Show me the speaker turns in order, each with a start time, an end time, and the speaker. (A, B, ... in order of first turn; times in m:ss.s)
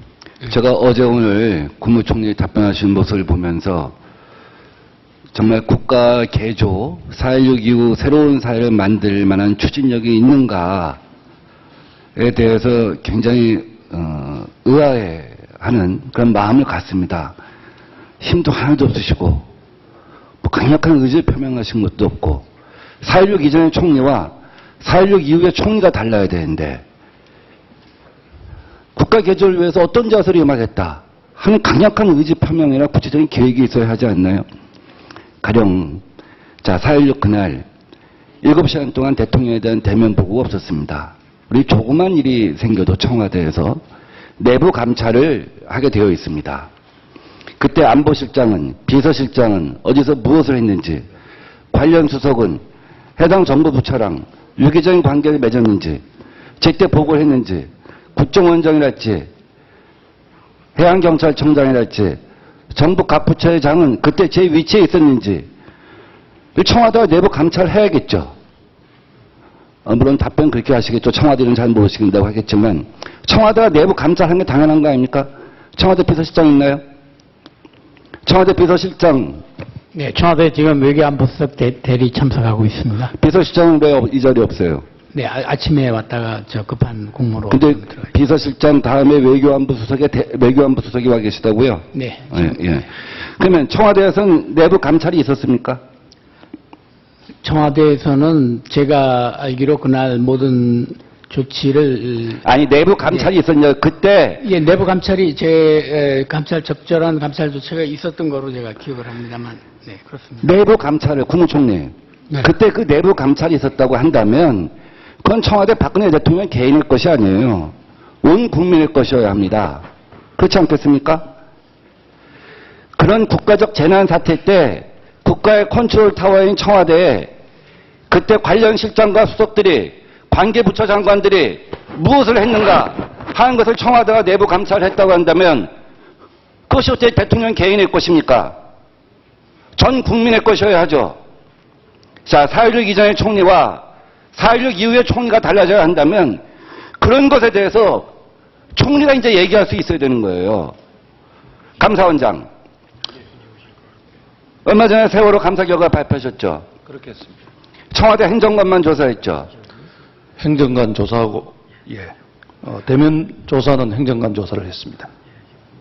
0:00.4-0:03.9 A
0:05.3-0:11.0 A
0:12.2-0:17.3 A
0:18.2-0:19.5 A
0:20.4-0:22.4 A
0:23.0-0:26.8 A
0:29.0-0:34.4 A
0:35.4-0:36.0 A
0:36.6-0:37.6 A
0:38.4-0:43.8 A
0:44.4-0:46.7 A
0:47.6-0:51.0 A
0:51.7-0:52.6 A
0:53.2-0:56.0 A
0:56.6-0:59.3 A
1:00.8-1:02.2 A
1:02.7-1:05.5 A
1:06.6-1:08.3 A
1:09.8-1:16.8 A
1:18.2-1:19.4 A
1:19.9-1:23.1 B
1:23.1-1:24.8 A
1:25.1-1:28.1 B
1:27.5-1:32.9 A
1:31.9-1:32.5 B
1:33.4-1:35.8 A
1:37.4-1:42.4 B
1:42.4-1:44.4 A
1:44.4-1:50.4 B
1:50.4-1:54.7 A
1:55.2-1:59.8 A
2:00.4-2:01.2 A
2:03.0-2:07.3 A
2:08.1-2:15.7 A
2:16.7-2:18.5 A
2:19.8-2:21.2 A
2:22.2-2:26.4 A
2:27.0-2:28.1 A
2:28.8-2:30.7 A
2:31.8-2:32.4 A
2:34.6-2:36.6 A
2:37.0-2:37.2 C
2:37.9-2:39.5 A
2:40.4-2:42.1 C
2:42.6-2:45.1 C